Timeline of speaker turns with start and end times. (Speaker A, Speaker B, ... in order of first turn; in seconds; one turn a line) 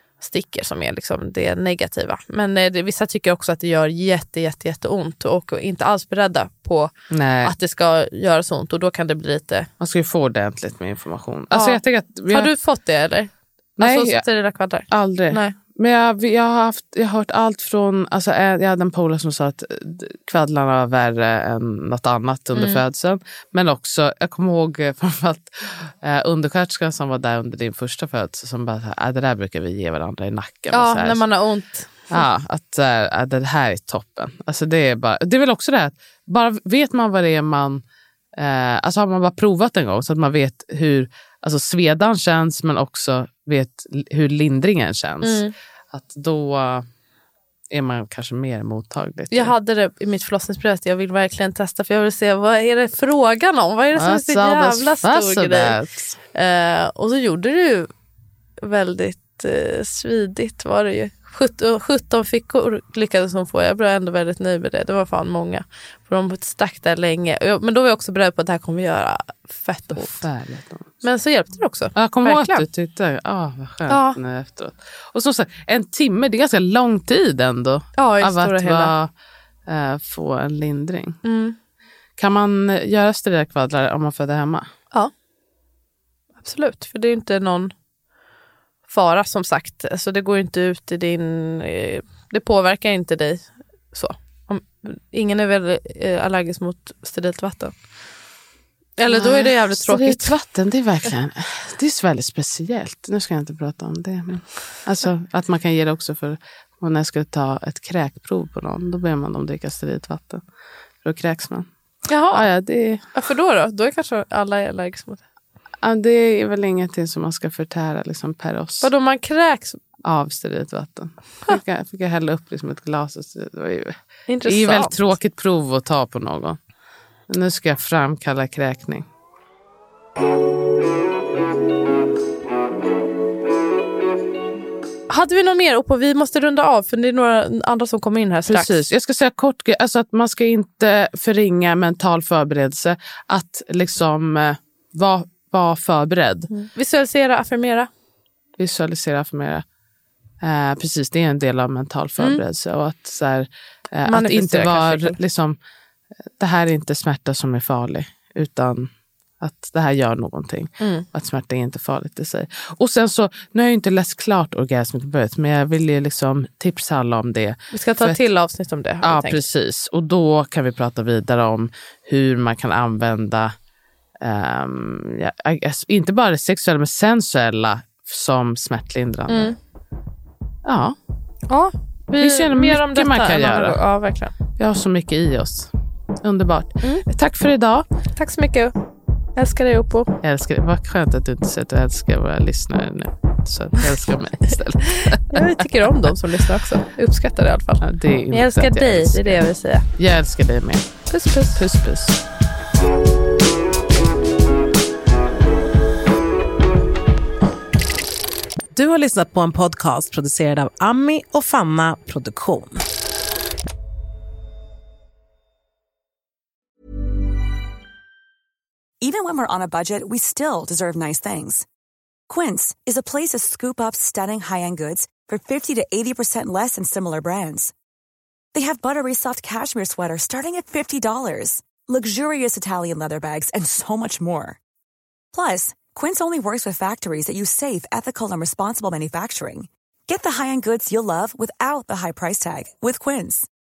Speaker A: 0.2-9.7
Speaker B: 7.1-7.5
Speaker B: 9.8-12.5
Speaker A: 11.5-15.6
Speaker B: 13.8-14.2
Speaker B: 14.9-31.2
Speaker A: 22.6-22.8
Speaker A: 30.7-32.2
Speaker B: 32.1-37.8
Speaker B: 38.4-46.9
Speaker A: 45.2-45.5
Speaker B: 47.7-49.5
Speaker A: 49.3-55.8
Speaker B: 54.0-56.2
Speaker A: 56.3-57.9
Speaker A: 58.6-70.2
Speaker B: 70.0-71.0
Speaker A: 71.0-72.7
Speaker B: 72.0-79.1
Speaker A: 73.9-74.2
Speaker A: 78.0-78.9
Speaker B: 79.7-81.2
Speaker A: 81.2-81.6
Speaker B: 82.2-84.7
Speaker A: 86.4-87.7
Speaker A: 88.9-97.8
Speaker A: 99.0-100.3
Speaker B: 99.1-110.5
Speaker B: 111.0-111.7
Speaker A: 112.1-112.5
Speaker B: 112.3-113.0
Speaker A: 113.1-115.2
Speaker B: 115.8-118.9
Speaker A: 118.8-119.8
Speaker B: 120.0-126.6
Speaker A: 124.3-125.0
Speaker B: 127.3-129.1
Speaker A: 135.1-138.9
Speaker B: 138.5-146.5
Speaker A: 146.5-147.9
Speaker B: 148.6-149.6
Speaker B: 150.4-155.6
Speaker A: 154.1-155.2
Speaker B: 156.4-168.2
Speaker A: 160.8-161.1
Speaker A: 167.7-169.4
Speaker B: 169.0-173.5
Speaker B: 174.2-179.6
Speaker A: 179.3-179.6
Speaker B: 180.6-181.0
Speaker A: 181.5-184.3
Speaker B: 182.2-183.8
Speaker B: 184.6-187.8
Speaker A: 188.2-188.7
Speaker A: 189.4-190.2
Speaker B: 190.2-195.7
Speaker A: 194.9-199.9
Speaker B: 197.8-199.4
Speaker B: 200.0-200.9
Speaker A: 201.1-201.6
Speaker B: 201.6-202.2
Speaker C: 208.7-212.8
Speaker D: 219.0-221.7
Speaker D: 222.3-227.7
Speaker D: 228.5-234.6
Speaker D: 235.3-243.5